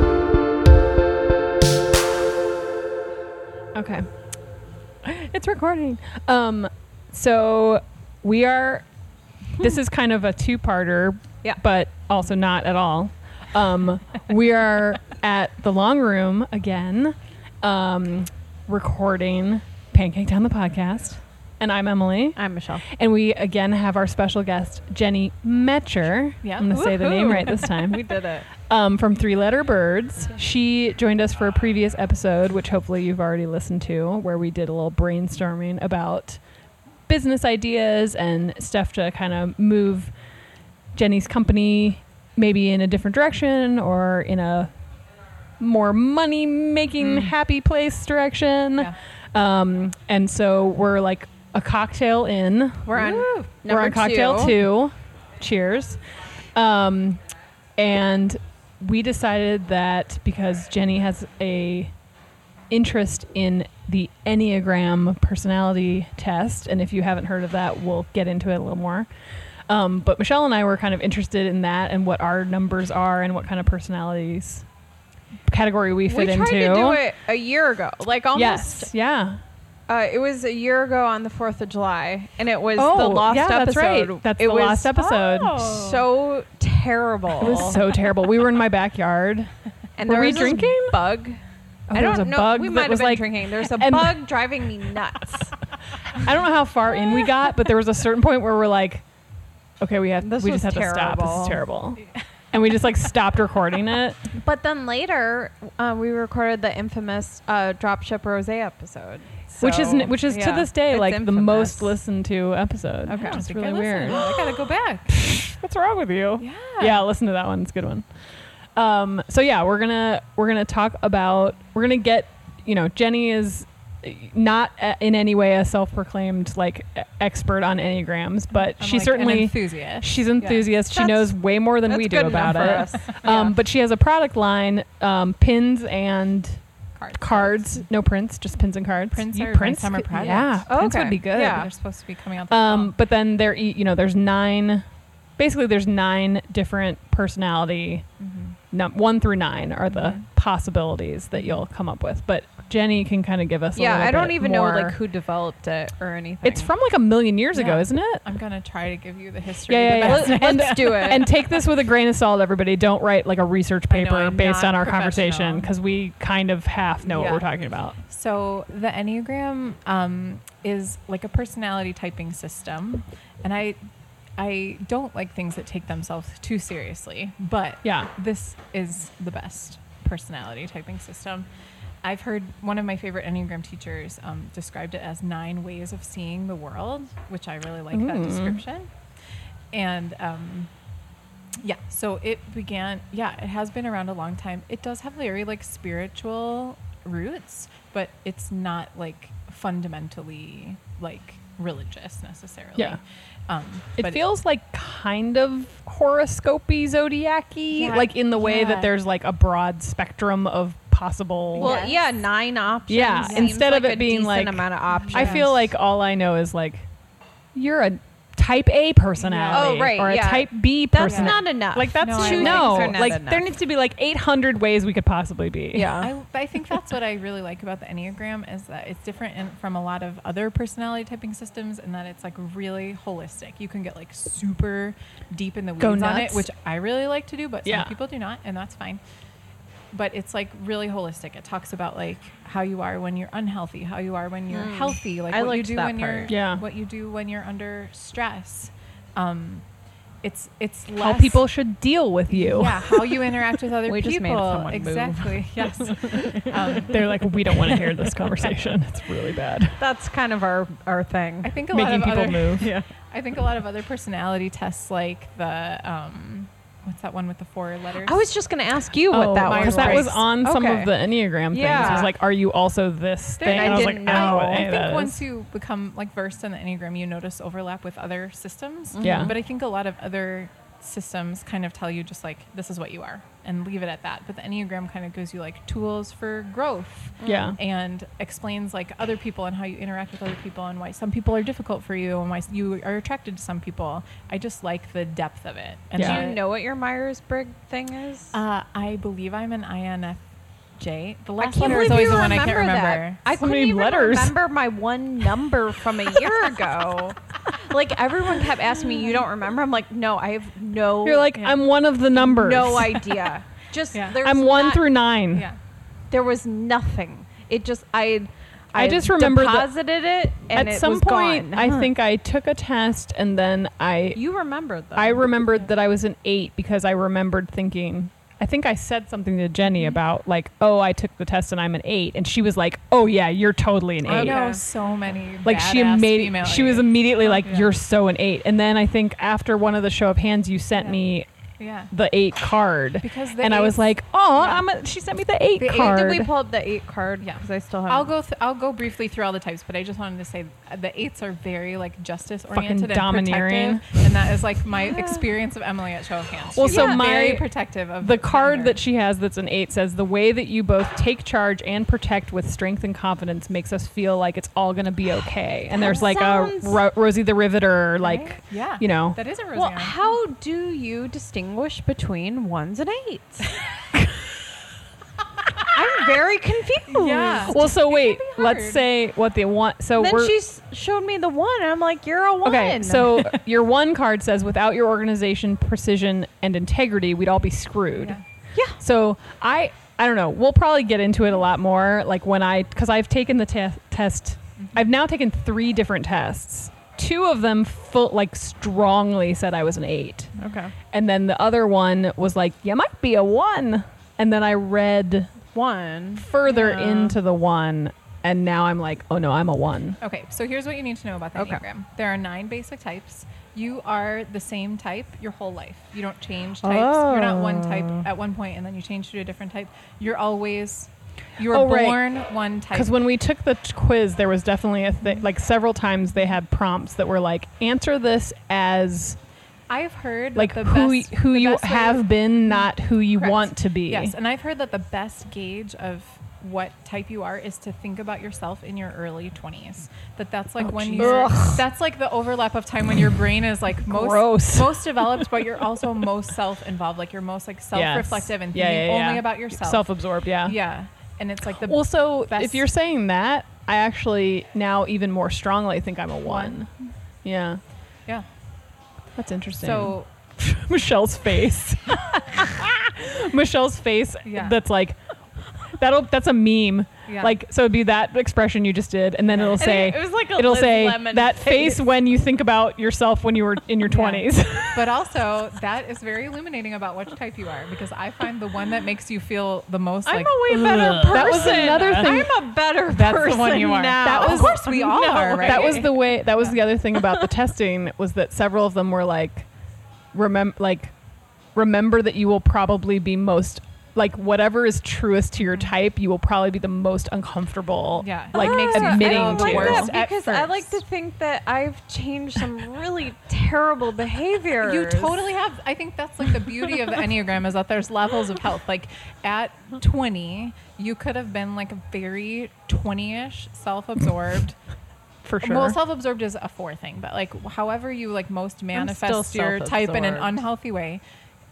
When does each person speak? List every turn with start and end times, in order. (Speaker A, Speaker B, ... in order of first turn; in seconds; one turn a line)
Speaker A: 3.7-4.1
Speaker A: 5.0-8.8
Speaker A: 9.6-36.4
Speaker B: 22.4-22.8
Speaker C: 26.4-27.7
Speaker B: 26.7-28.5
Speaker A: 37.1-40.1
Speaker A: 40.9-44.7
Speaker A: 45.6-52.9
Speaker B: 52.9-54.6
Speaker C: 52.9-53.5
Speaker A: 53.6-56.0
Speaker A: 56.5-57.2
Speaker A: 57.8-61.9
Speaker A: 62.7-69.1
Speaker A: 69.7-74.7
Speaker A: 75.5-77.0
Speaker B: 76.0-78.9
Speaker A: 78.3-79.4
Speaker B: 79.9-87.8
Speaker A: 82.8-85.7
Speaker C: 85.7-86.0
Speaker A: 87.4-89.5
Speaker B: 90.0-91.4
Speaker A: 90.0-91.0
Speaker A: 91.9-94.2
Speaker B: 91.9-95.5
Speaker A: 96.1-99.0
Speaker A: 99.8-104.2
Speaker B: 100.2-101.6
Speaker B: 104.3-111.9
Speaker A: 109.6-118.0
Speaker B: 113.0-113.4
Speaker C: 113.1-115.1
Speaker C: 116.4-117.0
Speaker A: 118.7-136.6
Speaker C: 128.8-130.7
Speaker B: 130.9-133.1
Speaker C: 132.6-133.5
Speaker C: 136.9-137.8
Speaker A: 137.2-141.7
Speaker C: 139.1-140.7
Speaker B: 140.7-141.7
Speaker C: 141.3-142.9
Speaker A: 142.5-144.8
Speaker A: 145.4-148.1
Speaker C: 148.2-148.5
Speaker A: 148.7-155.0
Speaker C: 149.9-150.2
Speaker B: 153.8-156.7
Speaker A: 156.4-158.2
Speaker C: 157.5-161.3
Speaker A: 159.7-168.0
Speaker B: 160.0-161.3
Speaker C: 163.9-165.7
Speaker C: 167.1-167.4
Speaker C: 168.1-173.8
Speaker C: 174.4-181.4
Speaker A: 177.8-178.1
Speaker C: 182.0-188.9
Speaker A: 187.9-188.6
Speaker C: 189.7-190.7
Speaker C: 191.6-204.2
Speaker A: 204.0-211.8
Speaker C: 207.7-208.9
Speaker C: 211.5-212.0
Speaker B: 211.6-215.5
Speaker A: 212.9-216.9
Speaker C: 213.2-213.5
Speaker C: 214.9-215.6
Speaker A: 217.5-226.0
Speaker C: 219.2-219.7
Speaker B: 219.5-223.4
Speaker C: 221.0-221.4
Speaker C: 222.0-223.0
Speaker B: 225.7-226.1
Speaker C: 226.0-239.0
Speaker A: 235.8-236.5
Speaker A: 237.6-237.9
Speaker C: 239.9-249.6
Speaker B: 244.5-246.3
Speaker A: 246.3-246.6
Speaker C: 250.2-251.4
Speaker A: 251.0-253.3
Speaker C: 252.3-257.0
Speaker B: 253.8-256.6
Speaker A: 256.9-259.8
Speaker B: 259.8-261.6
Speaker C: 261.4-268.2
Speaker A: 261.7-262.7
Speaker B: 262.6-262.9
Speaker B: 268.0-270.9
Speaker A: 269.1-275.2
Speaker C: 269.4-270.2
Speaker B: 271.5-272.1
Speaker C: 271.7-272.1
Speaker C: 273.4-296.4
Speaker B: 273.4-274.6
Speaker B: 278.9-279.4
Speaker A: 279.0-279.3
Speaker B: 287.2-287.5
Speaker A: 287.2-287.6
Speaker A: 295.9-296.3
Speaker B: 296.0-298.4
Speaker C: 298.3-300.2
Speaker C: 300.8-303.2
Speaker B: 301.4-311.3
Speaker A: 303.4-304.4
Speaker A: 311.0-313.2
Speaker B: 312.2-314.9
Speaker A: 314.2-315.5
Speaker C: 315.3-315.6
Speaker B: 316.1-321.9
Speaker A: 318.7-319.7
Speaker A: 320.5-324.2
Speaker B: 324.1-325.3
Speaker A: 324.9-334.4
Speaker B: 334.1-334.6
Speaker C: 334.1-337.7
Speaker A: 335.4-341.3
Speaker C: 341.6-341.9
Speaker A: 341.9-346.3
Speaker C: 343.0-344.6
Speaker C: 345.6-345.9
Speaker B: 345.6-348.1
Speaker C: 347.2-358.8
Speaker A: 352.5-354.1
Speaker B: 354.8-355.2
Speaker A: 356.5-357.5
Speaker B: 356.6-357.1
Speaker A: 358.0-369.2
Speaker B: 365.7-366.8
Speaker C: 368.0-370.2
Speaker B: 369.5-373.5
Speaker A: 373.9-374.2
Speaker B: 375.7-377.6
Speaker C: 376.9-378.8
Speaker A: 377.5-380.3
Speaker B: 380.0-383.4
Speaker A: 382.4-388.2
Speaker C: 388.0-388.2
Speaker A: 388.8-400.3
Speaker B: 400.4-400.7
Speaker A: 400.9-405.4
Speaker B: 405.5-406.2
Speaker A: 406.2-410.0
Speaker C: 406.4-407.2
Speaker C: 410.0-422.9
Speaker B: 411.4-411.6
Speaker B: 416.6-418.1
Speaker A: 421.5-422.0
Speaker A: 422.7-429.2
Speaker C: 429.7-449.9
Speaker A: 430.3-434.1
Speaker A: 440.6-441.6
Speaker B: 441.0-441.6
Speaker A: 443.9-445.3
Speaker A: 447.7-450.6
Speaker C: 450.4-452.6
Speaker A: 451.7-456.7
Speaker C: 456.2-456.6
Speaker A: 457.2-457.6
Speaker A: 459.1-465.0
Speaker C: 459.6-460.1
Speaker C: 464.2-464.6
Speaker A: 465.7-475.0
Speaker C: 467.1-467.3
Speaker C: 469.3-469.7
Speaker B: 469.6-471.9
Speaker C: 473.9-480.4
Speaker B: 480.1-485.9
Speaker A: 480.5-482.3
Speaker C: 481.1-482.3
Speaker C: 482.9-486.5
Speaker A: 483.9-489.5
Speaker B: 486.9-487.3
Speaker A: 490.1-490.9
Speaker A: 491.5-499.9
Speaker C: 498.0-500.7
Speaker B: 498.3-505.2
Speaker C: 504.6-514.5
Speaker A: 515.2-515.8
Speaker C: 515.4-521.0
Speaker B: 518.7-520.4